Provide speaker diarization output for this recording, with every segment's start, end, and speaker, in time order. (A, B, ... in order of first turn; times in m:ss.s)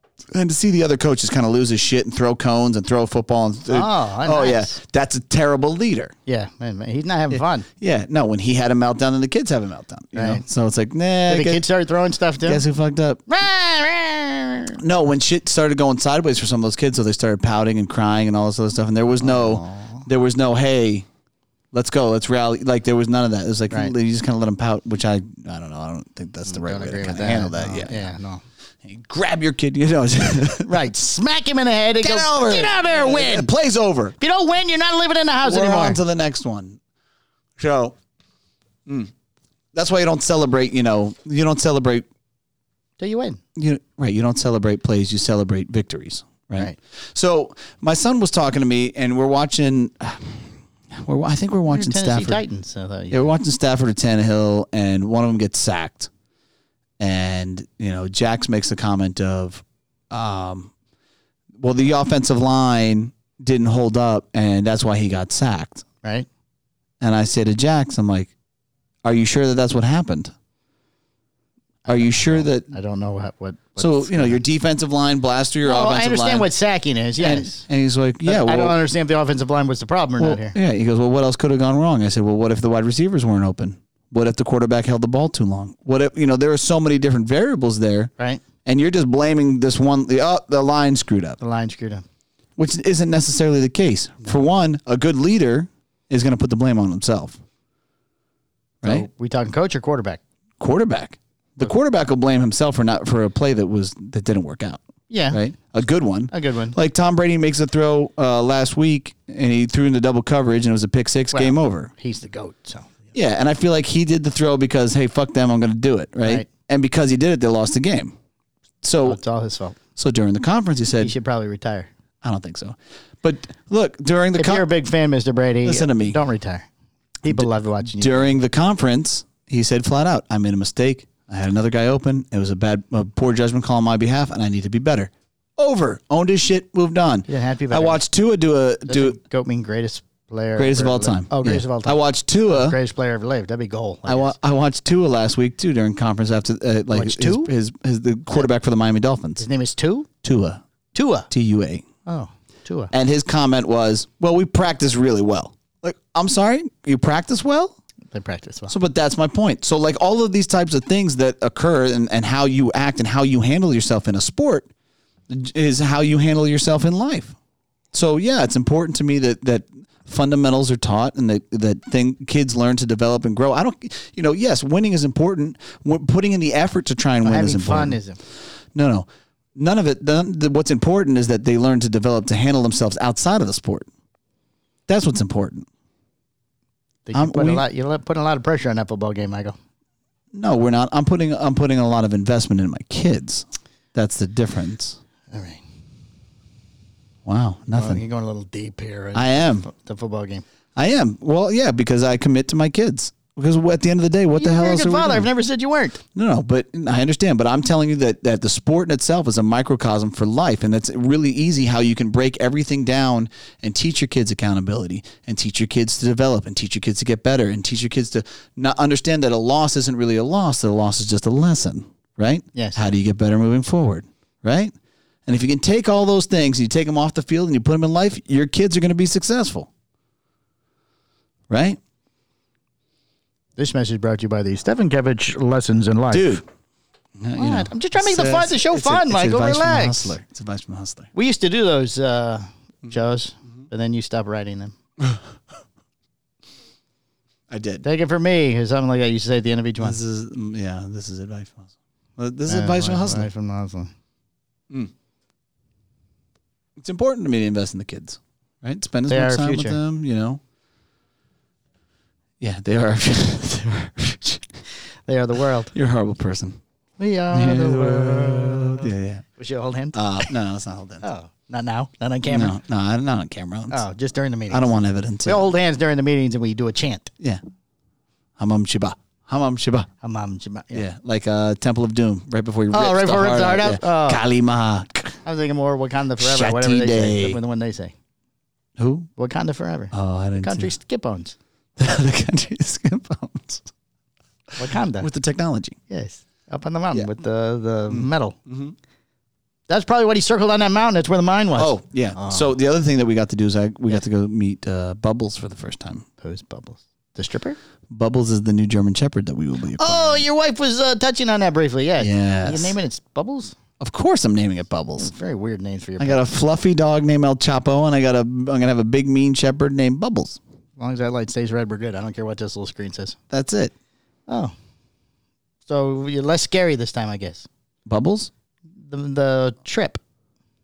0:00.3-0:06.1 A
0:03.7-0:04.8 B
0:06.3-0:07.7 B
0:07.3-0:11.6 A
0:10.1-0:10.4 B
0:11.3-0:12.6 B
0:12.4-0:13.2 A
0:13.3-0:14.8 B
0:14.8-0:21.0 A
0:19.2-0:20.0 B
0:21.7-0:28.1 A
0:26.5-0:28.4 B
0:28.8-0:30.8 A
0:30.5-0:33.5 B
0:32.0-0:34.1 A
0:34.2-0:36.0 B
0:35.4-0:36.8 A
0:37.6-0:38.0 A
0:38.9-0:39.1 A
0:39.7-0:42.0 A
0:43.0-0:43.4 B
0:43.6-0:52.4 A
0:51.7-0:53.3 B
0:53.1-0:56.1 A
0:57.0-1:00.7 A
1:01.6-1:05.8 A
1:07.0-1:08.3 A
1:09.0-1:10.3 A
1:11.8-1:12.7 A
1:11.8-1:14.4 B
1:13.8-1:16.5 A
1:15.6-1:17.6 B
1:17.2-1:18.8 A
1:18.2-1:20.5 B
1:20.2-1:28.1 A
1:28.6-1:31.4 A
1:31.4-1:32.0 B
1:32.6-1:37.4 A
1:38.8-1:39.1 A
1:38.8-1:40.2 B
1:40.6-1:51.9 A
1:45.1-1:45.4 B
1:46.3-1:46.8 B
1:51.3-1:53.0 B
1:53.1-1:58.2 A
1:58.8-1:59.2 A
1:59.0-1:59.8 B
2:00.0-2:01.1 A
2:01.0-2:01.9 B
2:02.2-2:04.6 A
2:04.3-2:06.6 B
2:05.6-2:06.2 A
2:07.2-2:08.4 B
2:07.3-2:19.2 A
2:17.3-2:18.0 B
2:18.9-2:24.3 B
2:20.6-2:22.8 A
2:24.0-2:29.5 A
2:26.9-2:27.5 B
2:29.4-2:30.1 B
2:30.2-2:30.6 A
2:30.9-2:31.3 B
2:31.3-2:31.8 A
2:32.0-2:32.9 B
2:32.9-2:37.8 A
2:38.1-2:38.7 B
2:38.7-2:44.7 A
2:45.3-2:47.3 A
2:47.9-2:58.0 A
2:57.2-2:58.2 B
2:58.7-3:03.9 A
3:04.9-3:05.7 A
3:07.0-3:09.6 B
3:07.1-3:07.6 A
3:10.3-3:15.0 A
3:15.3-3:15.6 B
3:17.2-3:18.0 A
3:17.7-3:20.4 B
3:19.1-3:19.7 A
3:20.8-3:25.3 A
3:24.4-3:26.0 B
3:26.1-3:44.7 A
3:42.5-3:42.8 B
3:45.2-3:49.7 A
3:51.5-3:51.8 A
3:53.6-3:56.4 B
3:56.1-3:56.4 A
3:57.2-4:01.1 A
3:57.4-4:00.2 B
4:01.1-4:04.7 B
4:05.0-4:05.3 A
4:07.5-4:07.8 A
4:07.8-4:10.0 B
4:09.8-4:13.3 A
4:12.5-4:13.9 B
4:16.8-4:20.4 A
4:19.1-4:19.8 B
4:22.4-4:24.6 A
4:25.1-4:25.7 B
4:25.7-4:26.6 A
4:27.0-4:30.3 B
4:27.3-4:29.2 A
4:29.9-4:31.0 A
4:31.0-4:32.6 B
4:32.3-4:33.8 A
4:33.7-4:34.7 B
4:34.5-4:35.5 A
4:35.2-4:37.1 B
4:38.4-4:39.9 A
4:40.0-4:40.8 B
4:40.7-4:45.2 A
4:42.7-4:44.2 B
4:45.2-4:47.9 B
4:46.2-4:47.4 A
4:48.8-4:49.1 A
4:49.2-4:51.3 B
4:49.9-4:50.7 A
4:51.8-4:53.7 A
4:54.6-4:55.1 B
4:55.0-4:55.8 A
4:55.9-4:58.4 B
4:57.9-4:58.8 A
4:59.7-5:02.5 B
5:01.6-5:06.0 A
5:06.2-5:07.6 B
5:07.9-5:10.2 A
5:09.8-5:13.5 B
5:12.0-5:12.8 A
5:13.8-5:15.1 A
5:15.0-5:16.2 B
5:16.0-5:20.4 A
5:20.8-5:23.2 B
5:23.3-5:23.7 A
5:24.3-5:24.5 B
5:25.7-5:27.5 B
5:27.8-5:28.3 A
5:28.9-5:30.0 B